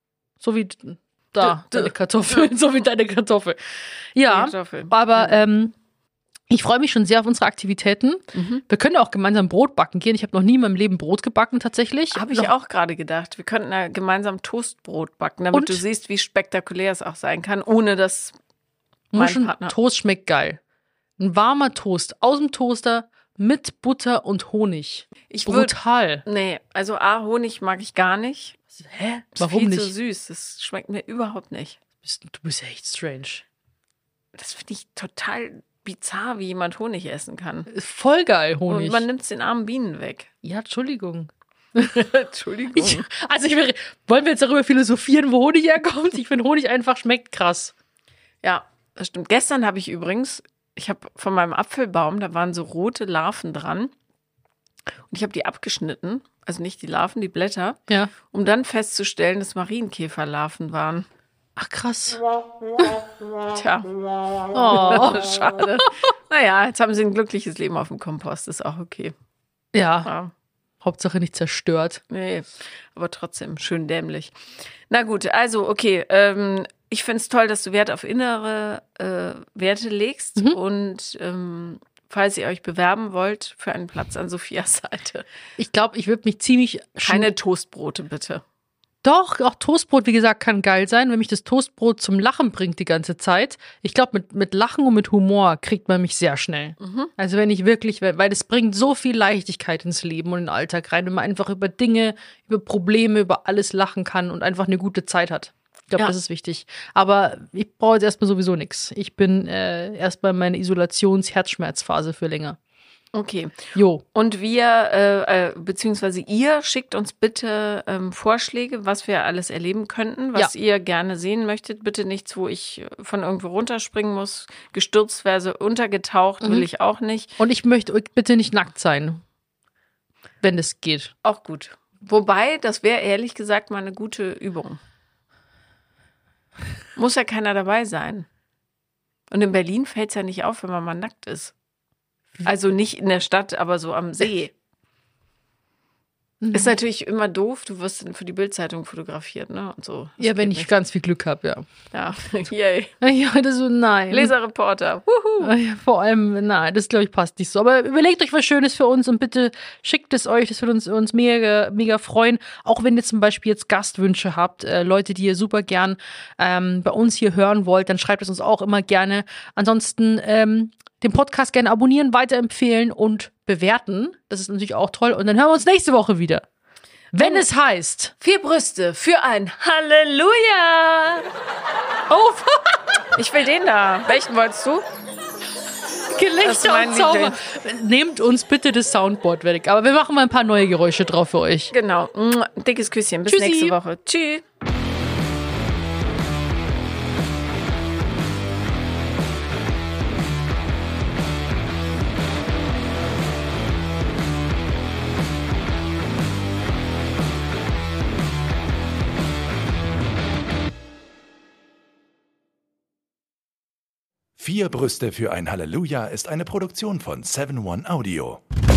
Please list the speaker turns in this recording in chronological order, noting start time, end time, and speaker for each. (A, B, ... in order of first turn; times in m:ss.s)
0:00.4-0:03.6 A
0:01.4-0:02.5 B
0:04.1-0:05.7 A
0:04.3-0:05.4 B
0:06.5-0:12.5 A
0:08.3-0:08.6 B
0:12.1-0:18.4 B
0:15.5-0:15.8 A
0:19.1-0:20.6 A
0:19.2-0:19.8 B
0:21.2-0:26.2 A
0:25.3-0:28.6 B
0:28.8-0:29.9 A
0:29.4-0:31.8 B
0:32.0-0:33.4 A
0:34.4-0:37.7 B
0:37.7-0:39.0 A
0:38.7-0:40.3 B
0:40.4-0:47.7 A
0:42.1-0:43.1 B
0:48.4-0:53.9 B
0:55.1-1:01.1 B
1:01.6-1:02.2 A
1:03.5-1:03.9 B
1:04.5-1:05.9 A
1:04.7-1:09.1 B
1:09.7-1:10.1 A
1:10.0-1:10.3 B
1:10.8-1:12.0 A
1:12.1-1:14.3 B
1:14.9-1:25.3 B
1:25.6-1:27.3 A
1:27.0-1:28.4 B
1:29.0-1:52.6 A
1:36.8-1:37.1 B
1:53.1-2:07.4 B
1:53.8-1:54.0 A
2:06.4-2:06.7 A
2:07.4-2:09.2 A
2:10.4-2:11.1 A
2:11.2-2:14.8 B
2:17.0-2:18.3 B
2:19.3-2:21.5 B
2:22.4-2:24.5 B
2:26.4-2:26.7 A
2:26.5-2:30.7 B
2:30.2-2:31.7 A
2:31.9-2:32.9 B
2:33.0-2:34.3 A
2:34.1-2:35.5 B
2:35.4-2:56.5 A
2:57.1-2:58.1 A
2:57.2-2:57.5 B
2:58.2-3:01.3 B
3:02.1-3:02.8 A
3:03.2-3:04.8 B
3:06.1-3:11.7 A
3:06.4-3:07.4 B
3:11.7-3:14.4 B
3:13.3-3:13.8 A
3:34.4-3:38.4 C